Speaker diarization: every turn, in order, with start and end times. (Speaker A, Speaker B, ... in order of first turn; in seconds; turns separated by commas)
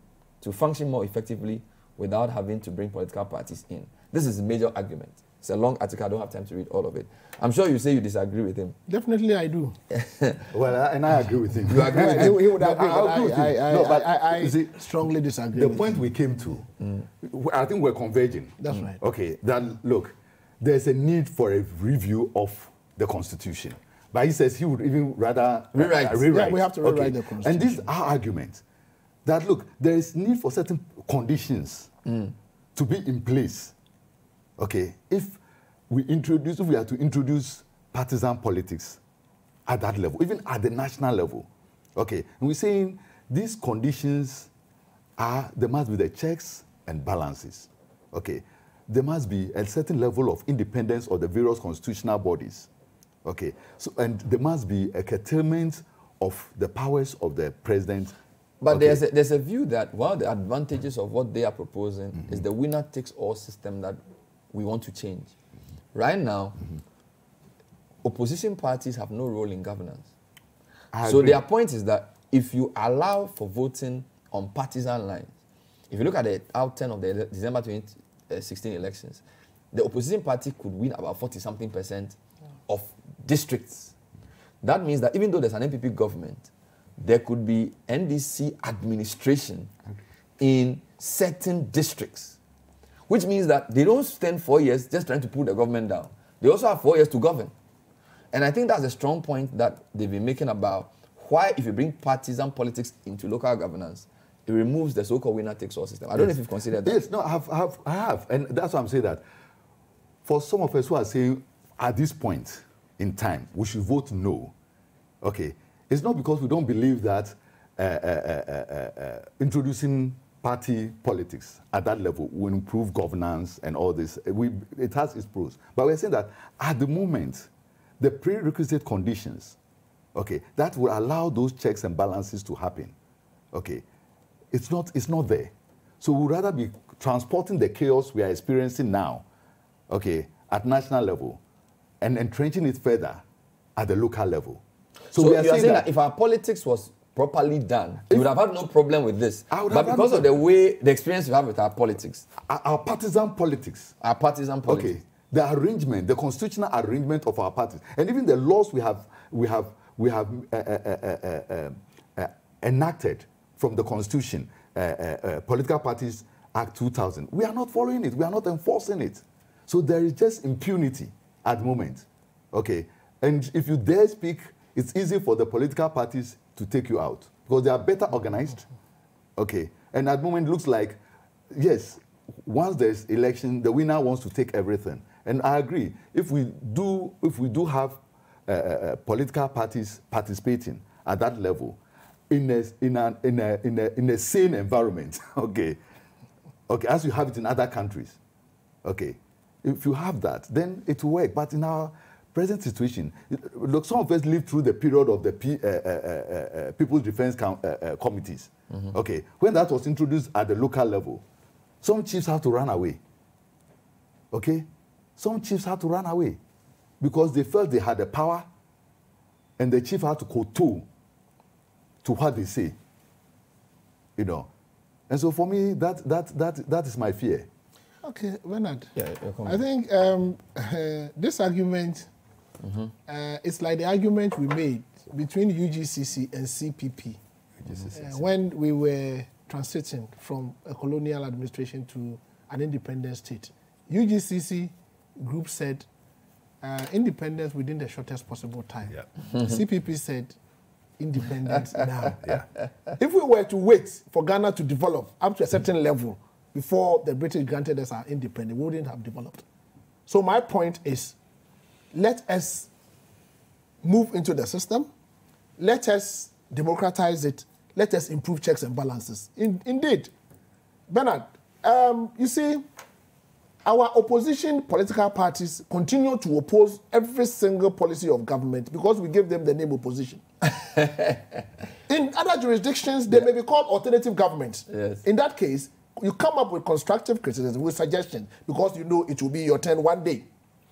Speaker A: 0.4-8.8, Speaker B: 8.9-9.7, Speaker A: 9.9-10.5, Speaker C: 10.5-14.8, Speaker A: 11.7-12.4, Speaker B: 11.9-16.0, Speaker C: 15.5-16.6, Speaker C: 17.2-28.6, Speaker B: 18.6-19.0, Speaker A: 25.7-26.3, Speaker B: 26.3-27.9, Speaker C: 29.2-31.9, Speaker A: 32.0-32.3, Speaker C: 32.7-33.7, Speaker C: 34.6-35.4, Speaker C: 35.9-39.0, Speaker C: 39.7-44.5, Speaker C: 45.2-52.7, Speaker C: 53.2-58.1, Speaker A: 58.6-64.0, Speaker C: 58.7-59.0, Speaker A: 64.5-65.3, Speaker A: 65.9-66.6, Speaker A: 68.0-70.1, Speaker C: 70.9-71.4, Speaker A: 71.0-75.3, Speaker A: 75.9-82.2, Speaker A: 82.7-83.9, Speaker A: 84.6-89.7, Speaker A: 90.4-92.4, Speaker A: 93.1-97.5, Speaker A: 98.3-107.0, Speaker C: 106.2-109.2, Speaker C: 110.2-114.5, Speaker C: 115.2-127.5, Speaker C: 128.0-129.6, Speaker C: 130.1-132.9, Speaker C: 133.5-133.8, Speaker C: 134.5-139.2, Speaker C: 139.9-141.4, Speaker C: 142.0-143.2, Speaker C: 143.8-144.6, Speaker C: 145.1-145.8, Speaker A: 145.1-152.2, Speaker C: 149.5-150.3, Speaker C: 152.4-153.9, Speaker A: 154.0-154.9, Speaker C: 154.7-178.6, Speaker C: 179.4-181.0, Speaker C: 181.5-191.8, Speaker C: 192.3-195.8, Speaker C: 196.7-198.2, Speaker C: 198.8-211.2, Speaker C: 211.8-213.0, Speaker C: 214.3-216.4, Speaker C: 217.0-218.4, Speaker C: 219.6-220.8, Speaker C: 222.0-222.8, Speaker C: 224.2-224.5, Speaker C: 225.1-227.5, Speaker B: 228.0-228.9, Speaker A: 228.9-229.6, Speaker B: 229.4-232.1, Speaker A: 232.6-232.9, Speaker B: 233.1-237.2, Speaker C: 237.6-238.3, Speaker B: 237.9-245.8, Speaker B: 246.6-250.3, Speaker B: 251.0-252.3, Speaker B: 253.0-259.4, Speaker B: 260.1-261.1, Speaker B: 261.9-262.7, Speaker B: 263.8-264.9, Speaker B: 265.6-270.1, Speaker B: 270.9-272.6, Speaker B: 273.6-280.2, Speaker A: 280.7-281.4, Speaker B: 281.9-290.3, Speaker A: 284.7-285.0